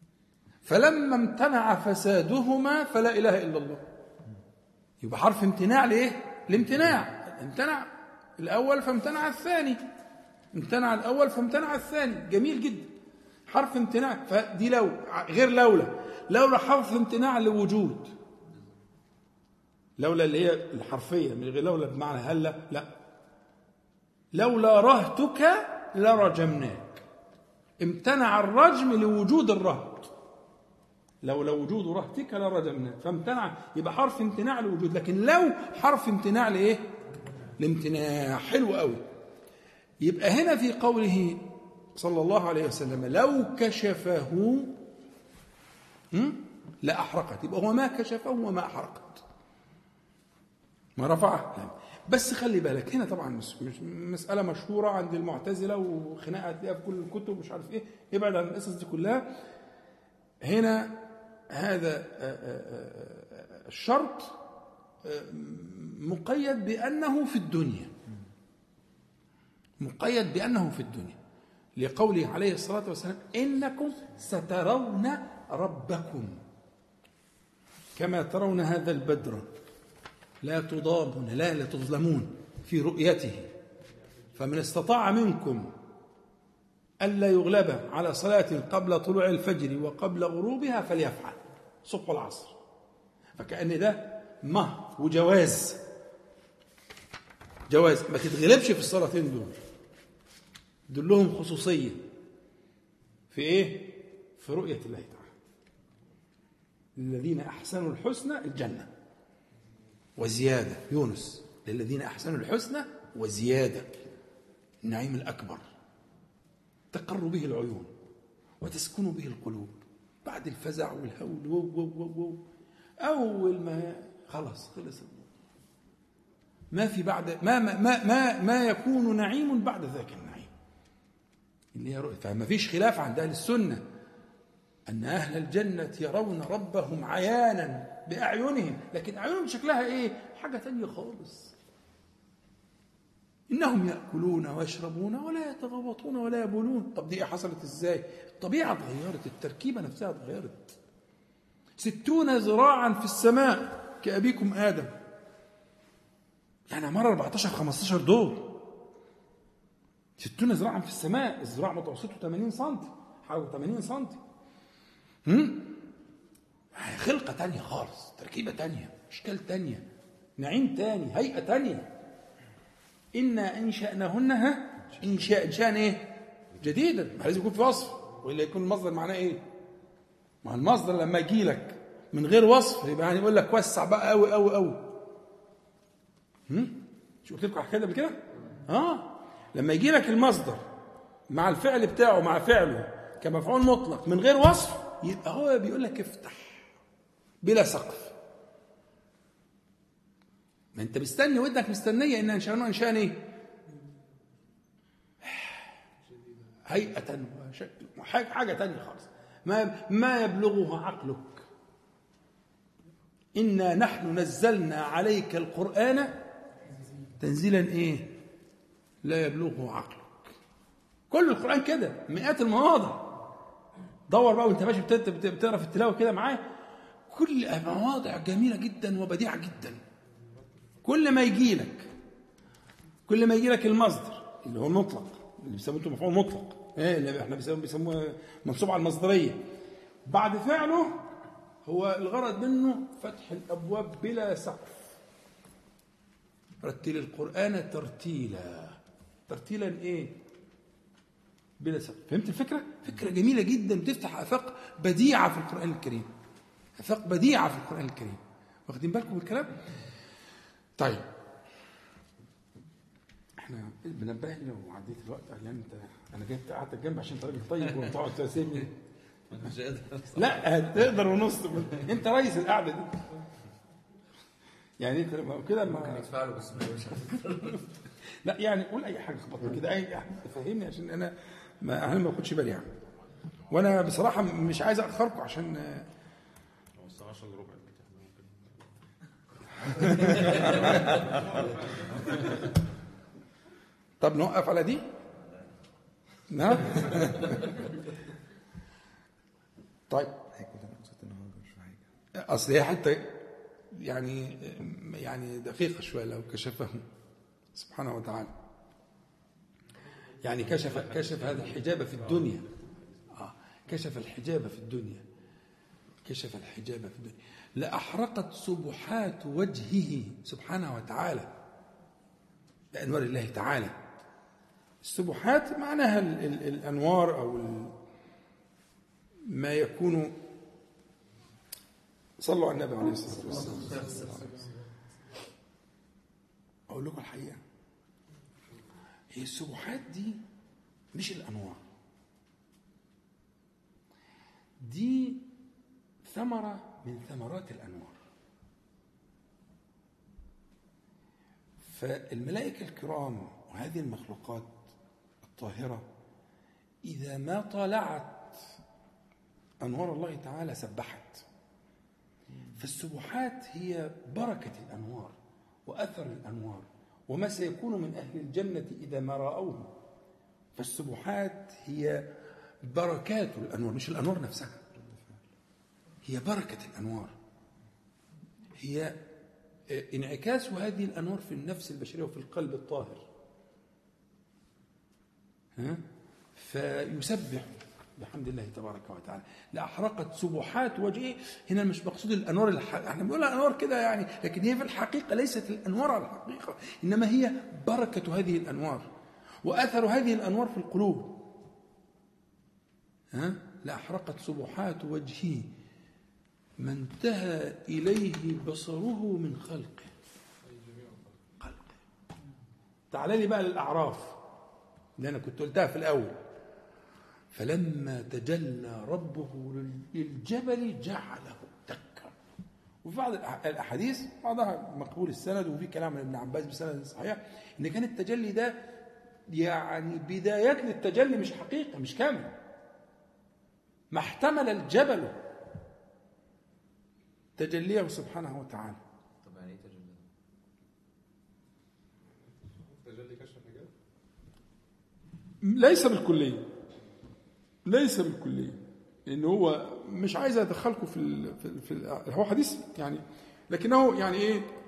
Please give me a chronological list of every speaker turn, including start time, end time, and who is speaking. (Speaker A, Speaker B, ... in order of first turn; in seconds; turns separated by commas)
Speaker A: 0.7-3.8, Speaker A: 5.0-9.8, Speaker A: 10.5-12.9, Speaker A: 13.5-18.1, Speaker A: 20.0-22.9, Speaker A: 24.3-27.0, Speaker A: 27.8-30.1, Speaker A: 31.2-36.9, Speaker A: 37.6-39.0, Speaker A: 40.0-44.8, Speaker A: 46.1-49.2, Speaker A: 51.0-59.3, Speaker A: 60.4-64.4, Speaker A: 65.0-67.9, Speaker A: 69.8-71.2, Speaker A: 71.8-76.4, Speaker A: 78.0-79.5, Speaker A: 80.4-83.5, Speaker A: 84.4-85.7, Speaker A: 87.0-92.5, Speaker A: 93.4-95.8, Speaker A: 97.7-99.6, Speaker A: 100.9-102.0, Speaker A: 103.3-105.3, Speaker A: 107.0-108.9, Speaker A: 110.2-113.9, Speaker A: 114.8-115.7, Speaker A: 116.9-117.9, Speaker A: 118.6-122.4, Speaker A: 123.0-125.3, Speaker A: 126.7-130.5, Speaker A: 131.8-133.8, Speaker A: 134.9-141.6, Speaker A: 143.5-150.7, Speaker A: 151.8-154.9, Speaker A: 156.7-158.6, Speaker A: 160.2-164.2, Speaker A: 165.2-165.7, Speaker A: 166.8-169.8, Speaker A: 170.4-171.9, Speaker A: 173.1-176.1, Speaker A: 176.6-179.4, Speaker A: 180.4-185.0, Speaker A: 186.5-190.6, Speaker A: 191.3-196.7, Speaker A: 197.4-198.2, Speaker A: 200.8-203.2, Speaker A: 205.2-205.7, Speaker A: 206.7-211.5, Speaker A: 213.3-216.2, Speaker A: 217.2-218.1, Speaker A: 219.0-220.3, Speaker A: 221.1-223.1, Speaker A: 224.1-226.4, Speaker A: 227.1-229.8, Speaker A: 230.8-231.9, Speaker A: 233.1-239.4, Speaker A: 240.1-241.0, Speaker A: 241.7-244.9, Speaker A: 246.6-250.1, Speaker A: 251.6-256.1, Speaker A: 256.8-259.6, Speaker A: 260.8-261.1, Speaker A: 263.4-268.8, Speaker A: 270.1-273.0, Speaker A: 274.8-276.2, Speaker B: 276.3-276.9, Speaker A: 278.2-282.7, Speaker A: 283.5-285.9, Speaker C: 286.8-288.7, Speaker C: 289.7-292.4, Speaker A: 289.9-290.4, Speaker A: 294.0-294.9, Speaker A: 296.3-297.6, Speaker A: 299.9-300.2, Speaker B: 300.3-301.8, Speaker A: 302.2-303.1, Speaker A: 303.7-306.9, Speaker A: 307.5-308.3, Speaker A: 310.2-312.5, Speaker C: 310.4-312.8, Speaker A: 313.1-315.0, Speaker A: 316.1-321.3, Speaker A: 322.7-323.8, Speaker A: 324.8-327.7, Speaker A: 329.3-330.1, Speaker A: 332.2-334.0, Speaker B: 333.4-334.3, Speaker A: 336.7-337.4, Speaker A: 339.1-340.2, Speaker A: 340.9-341.6, Speaker A: 344.6-345.3, Speaker A: 346.0-348.0, Speaker A: 351.6-354.5, Speaker A: 355.2-355.9, Speaker A: 356.8-358.4, Speaker A: 359.6-361.2, Speaker A: 362.6-369.7, Speaker A: 370.6-372.1, Speaker A: 372.6-374.6, Speaker B: 374.8-375.2, Speaker A: 376.1-377.1, Speaker A: 378.6-379.0, Speaker A: 379.7-383.1, Speaker A: 385.6-385.8, Speaker A: 386.4-398.9, Speaker A: 399.4-401.2, Speaker A: 403.1-405.5, Speaker A: 406.6-409.9, Speaker C: 410.4-411.2, Speaker A: 411.4-411.8, Speaker A: 412.9-414.2, Speaker A: 415.0-416.1, Speaker A: 417.3-422.1, Speaker A: 422.8-428.6, Speaker A: 429.3-432.4, Speaker A: 433.9-435.2, Speaker A: 437.4-438.8, Speaker C: 442.3-443.7, Speaker A: 445.4-446.4, Speaker A: 447.6-454.5